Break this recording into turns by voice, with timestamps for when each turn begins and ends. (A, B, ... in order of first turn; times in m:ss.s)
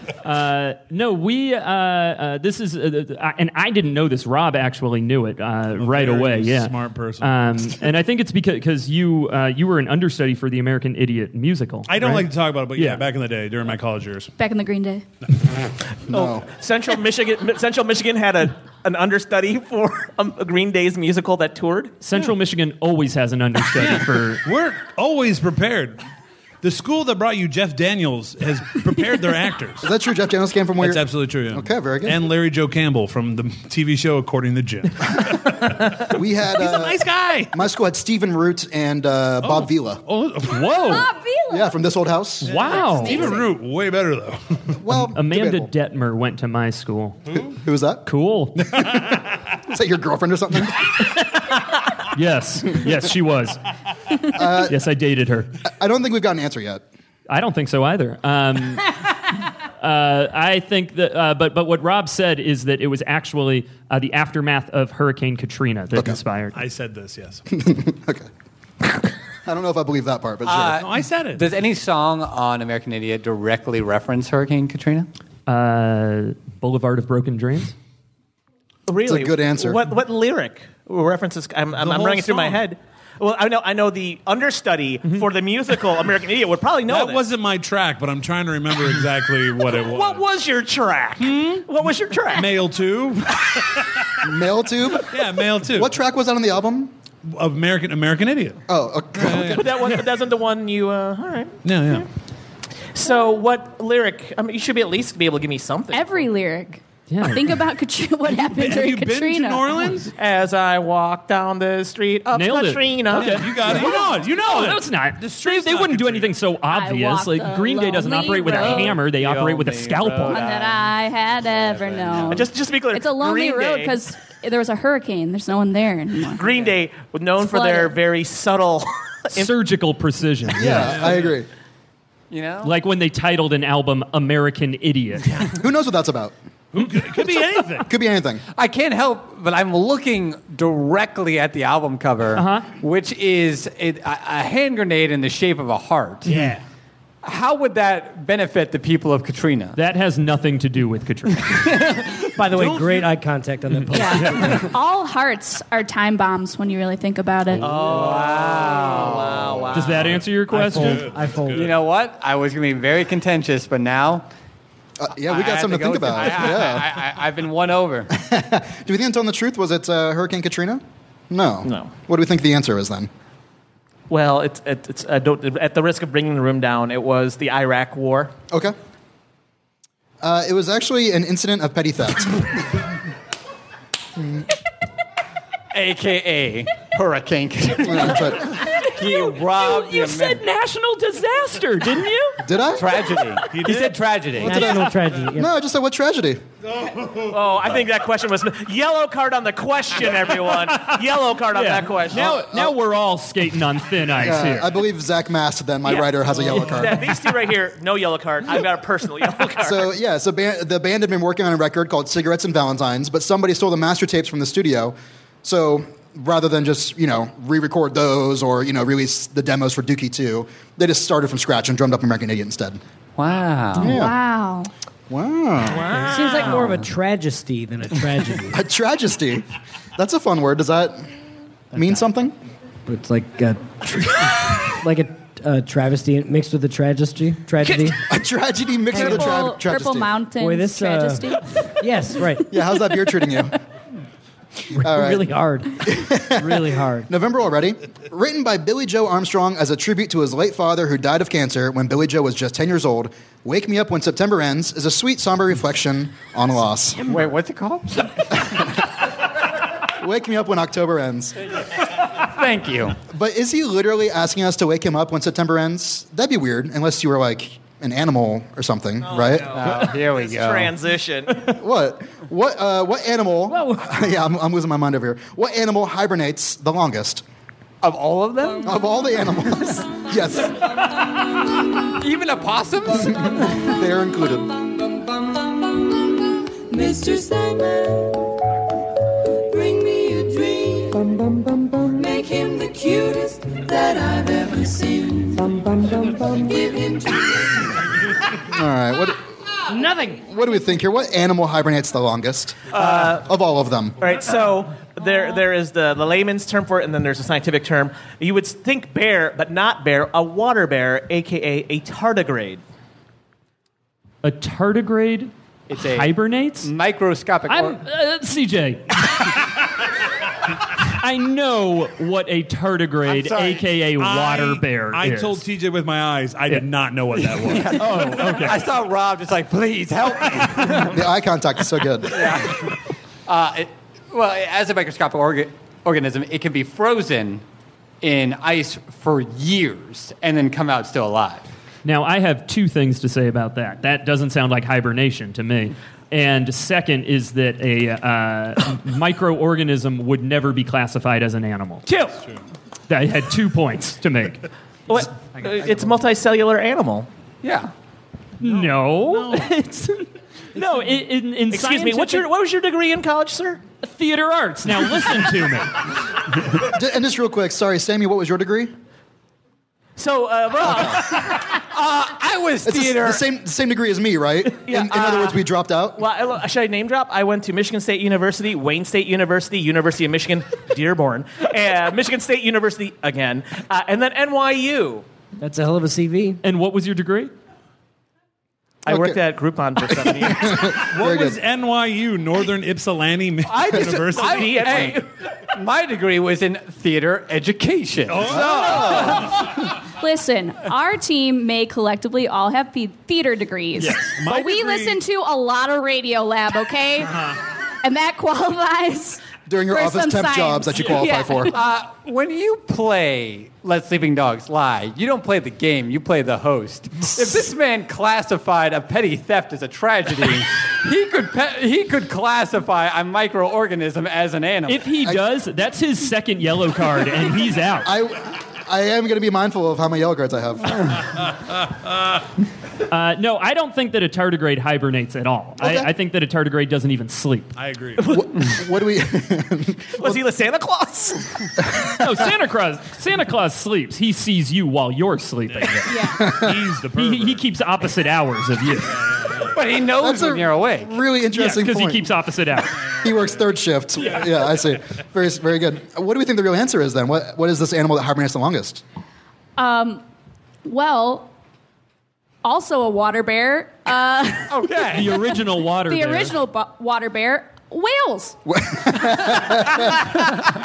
0:00.2-0:13.0 A
0:05.8-0:07.4 B
0:11.9-0:14.3 B
0:14.4-0:15.0 C
0:16.1-0:16.5 D
0:16.1-0:22.0 E
0:22.0-0:24.4 A
0:23.8-0:26.0 B
0:26.6-0:29.9 B
0:29.8-0:32.3 D
0:30.8-0:37.6 B
0:36.1-0:40.0 D
0:39.4-0:40.8 B
0:40.5-0:41.1 A
0:40.8-0:41.8 C
0:41.5-0:42.5 D
0:42.4-0:43.3 A
0:42.4-0:44.8 B
0:42.8-0:43.5 C
0:44.8-0:45.7 D
0:44.9-0:47.2 A
0:47.4-0:48.0 D
0:48.1-0:48.7 A
0:48.6-0:51.0 D
0:52.0-0:53.6 A
0:54.3-0:54.8 D
0:54.5-0:55.5 A
0:55.6-0:56.8 D
0:57.3-0:58.9 A
0:59.8-1:06.6 A
1:05.9-1:06.2 D
1:06.5-1:07.4 B
1:07.5-1:08.3 D
1:08.8-1:10.8 D
1:10.4-1:15.1 F
1:10.8-1:11.5 B
1:15.5-1:17.8 A
1:18.9-1:27.2 E
1:19.1-1:19.8 D
1:21.8-1:22.6 B
1:26.9-1:30.2 B
1:29.7-1:32.5 E
1:31.2-1:31.7 B
1:32.3-1:34.3 B
1:34.2-1:36.9 D
1:35.0-1:35.9 B
1:37.3-1:38.6 B
1:38.7-1:39.6 D
1:39.1-1:40.0 B
1:39.5-1:42.0 E
1:41.6-1:42.1 B
1:42.9-1:46.3 E
1:45.9-1:50.0 C
1:47.1-1:47.6 A
1:48.3-1:50.1 B
1:50.1-1:53.7 E
1:52.3-2:00.4 A
1:53.1-1:56.4 B
1:56.7-1:59.0 C
1:58.4-2:02.5 F
2:00.3-2:06.5 C
2:02.3-2:04.0 E
2:06.3-2:09.5 E
2:07.4-2:08.0 C
2:09.3-2:11.0 A
2:10.6-2:11.5 D
2:10.6-2:11.4 B
2:12.3-2:12.7 F
2:12.6-2:15.4 A
2:15.6-2:16.3 D
2:16.7-2:17.9 B
2:17.8-2:18.4 D
2:18.6-2:26.5 F
2:22.4-2:22.7 A
2:26.3-2:26.6 B
2:27.2-2:29.8 F
2:29.8-2:31.8 A
2:31.5-2:32.3 F
2:32.4-2:34.8 G
2:32.5-2:33.1 B
2:33.9-2:37.7 C
2:34.1-2:34.6 B
2:37.6-2:40.2 E
2:37.6-2:39.7 F
2:39.7-2:41.1 A
2:40.0-2:41.7 B
2:40.5-2:41.7 G
2:41.5-2:44.2 F
2:45.0-2:46.9 D
2:45.3-2:48.1 F
2:48.1-2:53.1 D
2:51.6-2:51.9 E
2:54.1-2:58.3 E
3:00.2-3:02.9 D
3:05.7-3:10.4 F
3:07.8-3:08.6 D
3:08.7-3:12.4 A
3:12.4-3:13.0 D
3:12.8-3:14.8 F
3:13.5-3:14.4 B
3:14.4-3:15.5 G
3:15.4-3:16.4 D
3:16.8-3:17.7 B
3:17.3-3:22.3 E
3:21.5-3:24.7 A
3:22.1-3:22.8 D
3:24.2-3:27.1 D
3:25.8-3:29.9 E
3:29.6-3:42.8 D
3:43.2-3:44.0 F
3:43.8-3:44.7 C
3:43.8-3:44.2 D
3:45.1-3:45.9 D
3:45.7-3:46.8 E
3:45.9-3:48.6 G
3:48.5-3:49.5 D
3:50.0-3:51.1 D
3:51.7-3:52.4 D
3:52.9-3:58.0 G
3:57.6-3:58.0 E
3:58.1-4:00.2 D
3:58.9-4:01.9 C
3:58.9-3:59.4 G
4:00.4-4:02.6 G
4:02.5-4:03.6 D
4:04.7-4:05.3 D
4:04.7-4:07.1 G
4:05.8-4:17.2 D
4:17.1-4:18.1 F
4:18.4-4:18.9 D
4:20.0-4:21.4 D
4:22.0-4:23.0 F
4:23.1-4:29.6 D
4:29.2-4:31.5 E
4:29.5-4:30.7 F
4:31.5-4:37.2 D
4:37.8-4:38.8 F
4:38.6-4:40.6 D
4:41.8-4:43.5 F
4:43.1-4:44.5 D
4:46.7-4:48.0 H
4:49.5-4:51.2 H
4:51.8-4:57.4 H
4:58.4-4:59.2 D
5:00.1-5:04.0 D
5:02.7-5:03.2 E
5:04.0-5:12.6 E
5:14.2-5:15.3 A
5:15.7-5:17.8 F
5:15.8-5:16.7 A
5:17.5-5:19.3 A
5:20.8-5:25.4 A
5:23.0-5:23.7 F
5:24.0-5:28.1 B
5:27.3-5:31.0 F
5:27.7-5:28.6 A
5:30.8-5:32.5 D
5:32.1-5:32.7 F
5:33.3-5:37.4 F
5:38.0-5:41.5 F
5:41.8-5:51.9 A
5:51.9-5:52.2 E
5:52.9-5:54.4 A
5:54.9-5:57.1 E
5:57.4-5:57.7 F
5:58.4-6:02.3 A
5:58.4-5:59.5 B
6:01.5-6:03.6 E
6:03.8-6:05.8 A
6:06.5-6:08.7 D
6:10.0-6:11.5 E
6:11.3-6:13.2 F
6:12.6-6:16.0 D
6:14.6-6:15.4 E
6:16.0-6:25.0 E
6:25.4-6:26.4 G
6:26.4-6:27.3 A
6:28.9-6:30.7 E
6:28.9-6:29.2 D
6:29.8-6:31.4 D
6:30.7-6:34.9 B
6:33.5-6:39.3 F
6:34.2-6:35.1 E
6:38.1-6:39.3 B
6:38.3-6:39.3 D
6:40.0-6:51.6 C
6:43.8-6:44.1 A
6:44.0-6:45.0 B
6:49.5-6:51.6 D
6:51.5-7:04.9 F
7:04.7-7:07.9 A
7:07.8-7:11.0 D
7:11.6-7:12.1 B
7:12.9-7:17.5 A
7:17.6-7:18.0 B
7:18.0-7:18.3 E
7:18.1-7:20.2 D
7:20.0-7:21.4 E
7:21.8-7:26.0 A
7:25.5-7:27.4 B
7:25.9-7:26.2 C
7:26.1-7:26.6 D
7:27.0-7:29.0 A
7:29.0-7:29.6 B
7:29.5-7:30.9 F
7:30.0-7:32.1 D
7:31.3-7:32.8 A
7:33.0-7:38.8 D
7:39.6-7:40.0 C
7:40.6-7:41.3 C
7:42.4-7:44.7 C
7:44.5-7:45.2 F
7:44.9-7:46.4 A
7:45.9-7:48.4 C
7:48.5-7:50.4 D